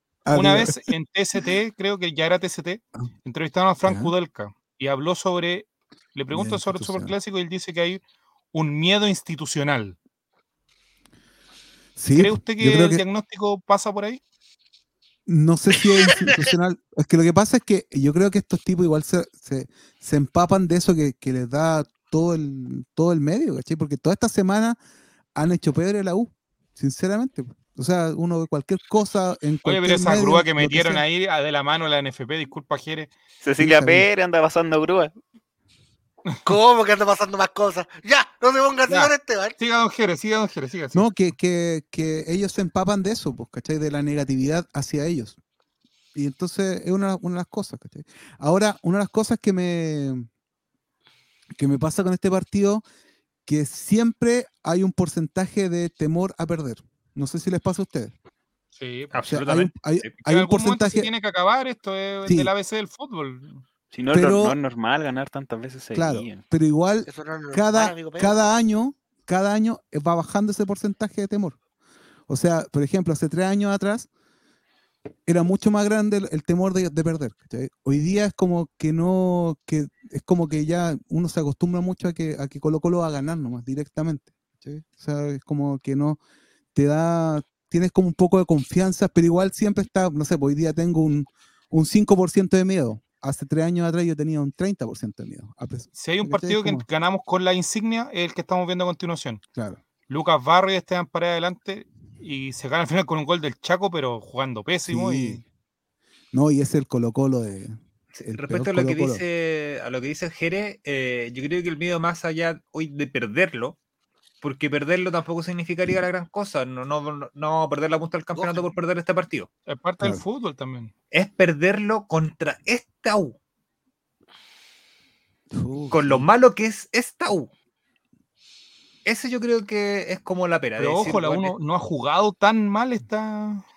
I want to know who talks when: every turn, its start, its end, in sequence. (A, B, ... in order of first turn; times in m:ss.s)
0:00.2-0:00.8 A
0:00.3-0:08.0 B
0:03.8-0:04.1 A
0:06.3-0:07.1 A
0:08.5-0:10.0 B
0:12.0-0:13.0 A
0:12.2-0:14.2 B
0:15.2-0:24.8 A
0:25.3-0:31.0 A
0:29.6-0:33.1 B
0:33.4-0:35.1 C
0:33.6-0:34.1 A
0:36.4-0:39.5 D
0:38.9-0:41.0 B
0:40.9-0:45.4 A
0:46.1-0:50.3 A
0:51.5-0:52.8 A
0:53.4-0:58.1 A
0:58.8-0:59.1 B
0:59.1-1:00.1 E
0:59.3-1:01.1 A
1:00.3-1:03.6 B
1:02.2-1:02.5 A
1:03.9-1:06.4 C
1:04.1-1:04.6 A
1:05.9-1:11.6 A
1:07.1-1:08.4 D
1:12.3-1:14.1 A
1:15.2-1:26.2 A
1:26.7-1:36.8 A
1:36.0-1:39.4 B
1:39.5-1:39.8 A
1:40.1-1:45.4 B
1:44.9-1:45.4 A
1:46.3-1:49.2 A
1:48.3-1:53.8 E
1:54.4-1:59.5 E
1:59.7-2:00.9 B
2:01.1-2:03.4 E
2:05.5-2:06.2 A
2:05.9-2:07.5 E
2:09.0-2:11.5 E
2:10.8-2:13.6 B